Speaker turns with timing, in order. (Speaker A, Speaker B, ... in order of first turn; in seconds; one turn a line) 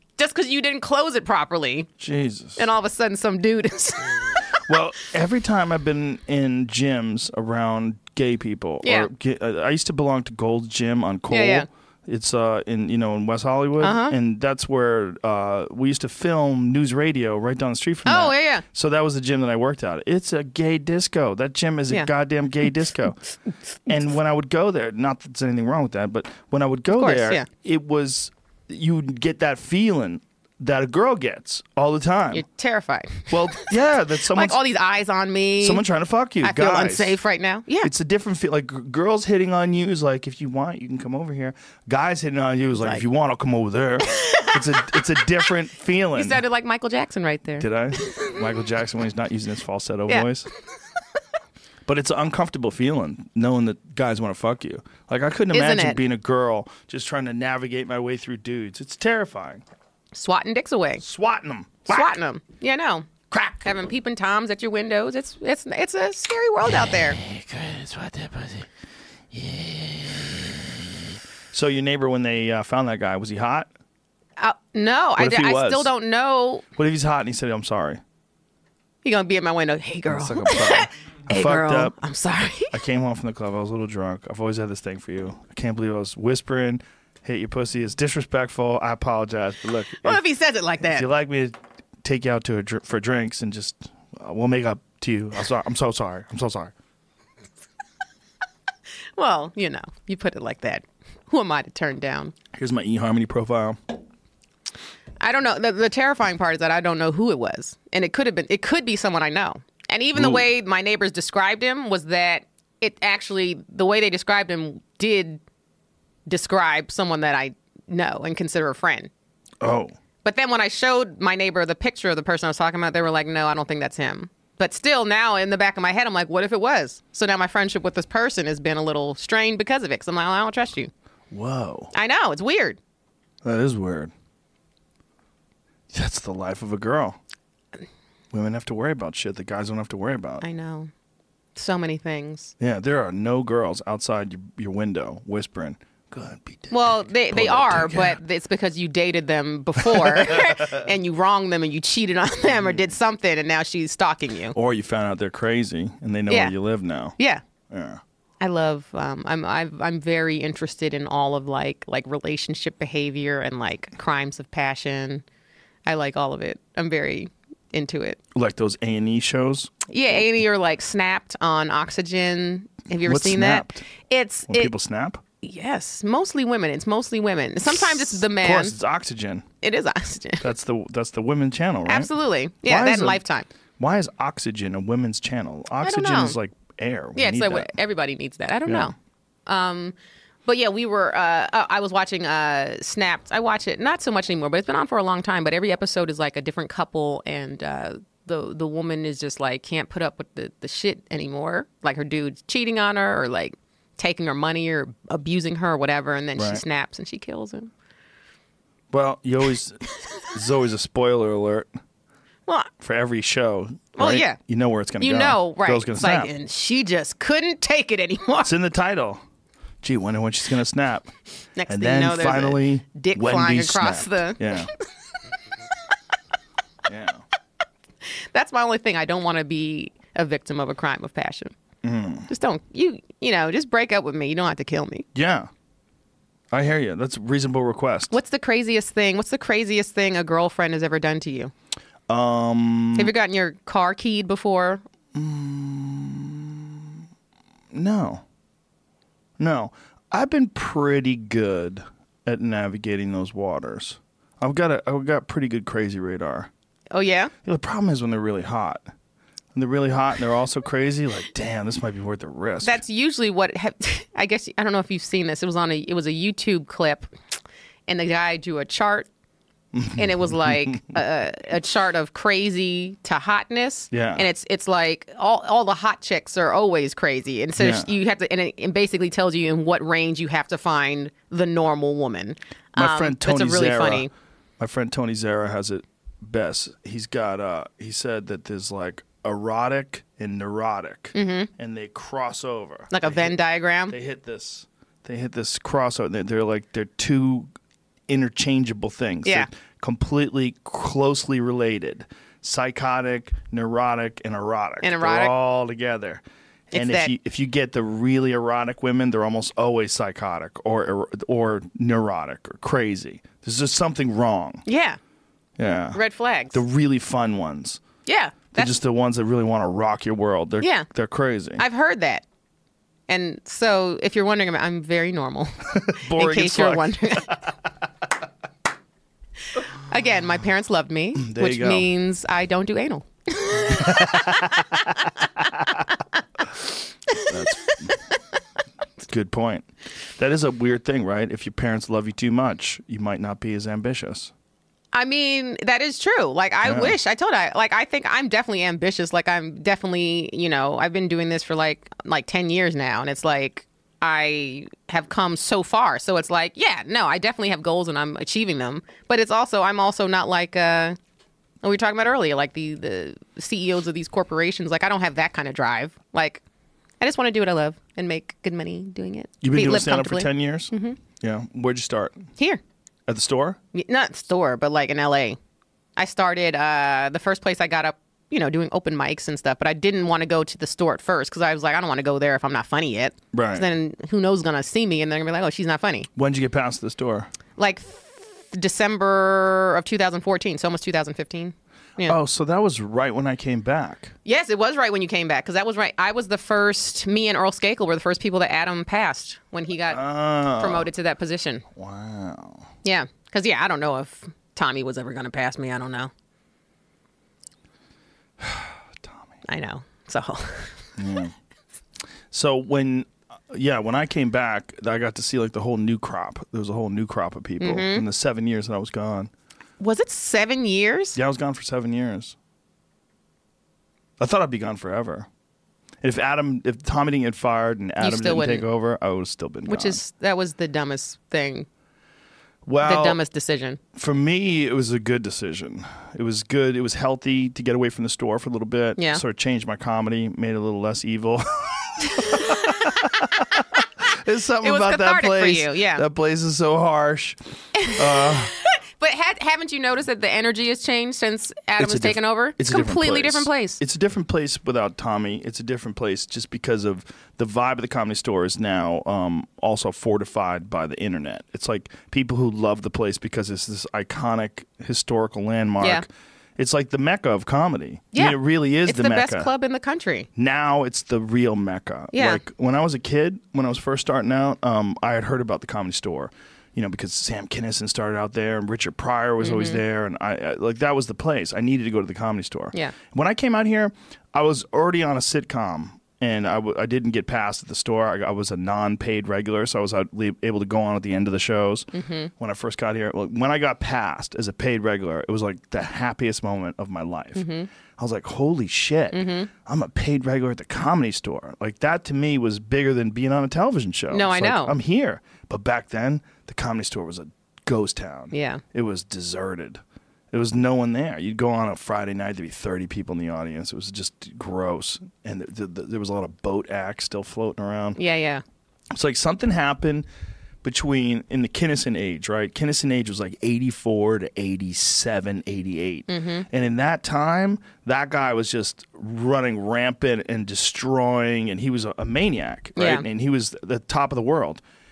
Speaker A: 0.2-1.9
Speaker B: 2.0-2.7
Speaker A: 2.6-4.4
Speaker B: 4.6-23.2
Speaker A: 8.8-9.1
Speaker A: 11.3-11.7
Speaker A: 13.8-14.2
Speaker A: 18.1-18.6
Speaker B: 23.9-32.4
Speaker A: 26.9-27.5
Speaker A: 32.3-35.8
Speaker B: 33.3-34.6
Speaker B: 35.6-37.2
Speaker A: 36.4-37.9
Speaker B: 37.8-46.4
Speaker A: 42.8-43.0
Speaker A: 44.1-44.6
Speaker A: 46.1-48.4
Speaker B: 47.6-50.5
Speaker B: 51.9-59.6
Speaker A: 55.5-56.0
Speaker A: 60.1-61.0
Speaker B: 61.0-62.1
Speaker A: 61.9-63.1
Speaker B: 63.3-63.7
Speaker A: 63.6-67.2
Speaker B: 67.2-68.7
Speaker B: 69.3-70.5
Speaker B: 71.5-73.7
Speaker A: 74.4-76.6
Speaker B: 75.2-75.9
Speaker B: 76.8-78.0
Speaker A: 79.0-82.8
Speaker B: 80.1-82.0
Speaker B: 82.7-90.2
Speaker A: 90.0-91.1
Speaker B: 90.9-96.7
Speaker A: 99.2-102.3
Speaker B: 102.5-103.8
Speaker A: 105.2-115.4
Speaker B: 110.2-110.5
Speaker A: 116.3-119.1
Speaker B: 119.6-119.9
Speaker A: 120.2-130.9
Speaker B: 131.3-131.9
Speaker A: 131.9-132.8
Speaker B: 133.4-134.1
Speaker B: 135.9-137.2
Speaker B: 138.3-140.4
Speaker A: 140.4-140.9
Speaker A: 141.6-142.5
Speaker B: 142.6-148.2
Speaker A: 146.7-154.6
Speaker B: 149.8-150.8
Speaker B: 152.5-152.9
Speaker B: 154.5-157.2
Speaker A: 156.3-156.5
Speaker B: 157.7-158.0
Speaker A: 158.4-165.2
Speaker A: 165.9-168.2
Speaker B: 168.3-169.8
Speaker A: 169.9-174.7
Speaker B: 173.0-173.9
Speaker B: 174.5-175.2
Speaker A: 175.4-178.8
Speaker B: 178.1-179.5
Speaker A: 179.6-180.4
Speaker B: 180.4-182.1
Speaker A: 181.9-183.5
Speaker B: 182.6-183.2
Speaker B: 183.8-187.7
Speaker A: 185.8-186.4
Speaker A: 187.2-188.9
Speaker B: 188.7-188.9
Speaker A: 189.5-189.9
Speaker A: 190.5-207.7
Speaker B: 206.4-206.6
Speaker B: 208.9-211.7
Speaker B: 212.8-216.3
Speaker A: 214.0-214.4
Speaker A: 215.0-218.5
Speaker B: 218.4-219.2
Speaker B: 219.8-221.1
Speaker A: 221.6-224.8
Speaker B: 221.7-224.7
Speaker B: 226.9-227.2
Speaker A: 228.1-231.5
Speaker B: 231.8-232.3
Speaker A: 232.3-235.1
Speaker B: 235.2-235.5
Speaker B: 236.5-238.2
Speaker A: 238.1-241.5
Speaker B: 242.1-243.1
Speaker A: 243.0-244.8
Speaker B: 245.2-246.9
Speaker B: 247.7-248.2
Speaker B: 249.4-256.5
Speaker A: 256.9-257.3
Speaker B: 257.4-258.9
Speaker B: 259.6-262.8
Speaker A: 262.6-267.1
Speaker A: 267.9-269.1
Speaker B: 269.7-270.9
Speaker A: 270.0-284.1
Speaker B: 273.9-274.3
Speaker B: 277.6-277.9
Speaker B: 282.8-284.1
Speaker B: 284.6-293.4
Speaker A: 291.1-291.5
Speaker A: 292.9-293.9
Speaker B: 293.9-297.5
Speaker B: 298.1-306.2
Speaker A: 304.8-305.3
Speaker A: 306.7-307.1
Speaker B: 306.7-314.6
Speaker A: 314.7-315.0
Speaker B: 315.6-316.0
Speaker A: 315.9-316.6
Speaker B: 316.5-317.8
Speaker A: 318.1-318.8
Speaker B: 318.5-321.6
Speaker A: 320.6-320.9
Speaker A: 321.6-322.2
Speaker A: 323.1-327.4
Speaker B: 325.8-327.4
Speaker A: 329.9-334.6
Speaker B: 331.2-331.9
Speaker B: 333.8-334.9
Speaker A: 337.1-337.9
Speaker B: 337.2-338.0
Speaker B: 339.1-344.3
Speaker A: 344.9-361.0
Speaker B: 346.6-346.9
Speaker A: 361.6-366.4
Speaker A: 367.0-371.0
Speaker B: 369.4-372.3
Speaker B: 373.1-373.6
Speaker A: 373.7-375.4
Speaker A: 376.0-386.1
Speaker B: 383.3-383.7
Speaker B: 386.2-387.3
Speaker A: 387.6-392.2
Speaker B: 392.0-394.1
Speaker A: 394.3-401.6
Speaker B: 399.9-400.9
Speaker B: 401.8-402.7
Speaker A: 402.8-406.1
Speaker B: 408.4-409.3
Speaker A: 409.5-410.9
Speaker B: 411.0-411.4
Speaker B: 412.3-419.3
Speaker A: 417.6-418.1
Speaker A: 419.8-421.2
Speaker B: 421.1-422.4
Speaker B: 424.2-425.3
Speaker B: 426.0-430.0
Speaker A: 428.0-428.7
Speaker A: 429.7-431.7
Speaker B: 432.6-433.2
Speaker A: 432.8-433.8
Speaker B: 433.9-448.5
Speaker A: 439.0-439.2
Speaker A: 444.6-446.0
Speaker A: 447.8-453.8
Speaker B: 451.8-466.1
Speaker B: 466.6-469.5
Speaker A: 468.1-470.3
Speaker B: 470.4-497.4
Speaker A: 472.1-472.4
Speaker A: 479.4-479.8
Speaker A: 491.9-492.3
Speaker A: 497.4-497.7
Speaker B: 498.0-509.8
Speaker A: 499.1-499.5
Speaker A: 504.1-504.8
Speaker A: 508.3-508.6
Speaker B: 510.3-518.0
Speaker A: 518.0-518.4
Speaker B: 518.9-520.1
Speaker B: 520.6-534.6
Speaker A: 526.1-526.5
Speaker A: 532.8-533.0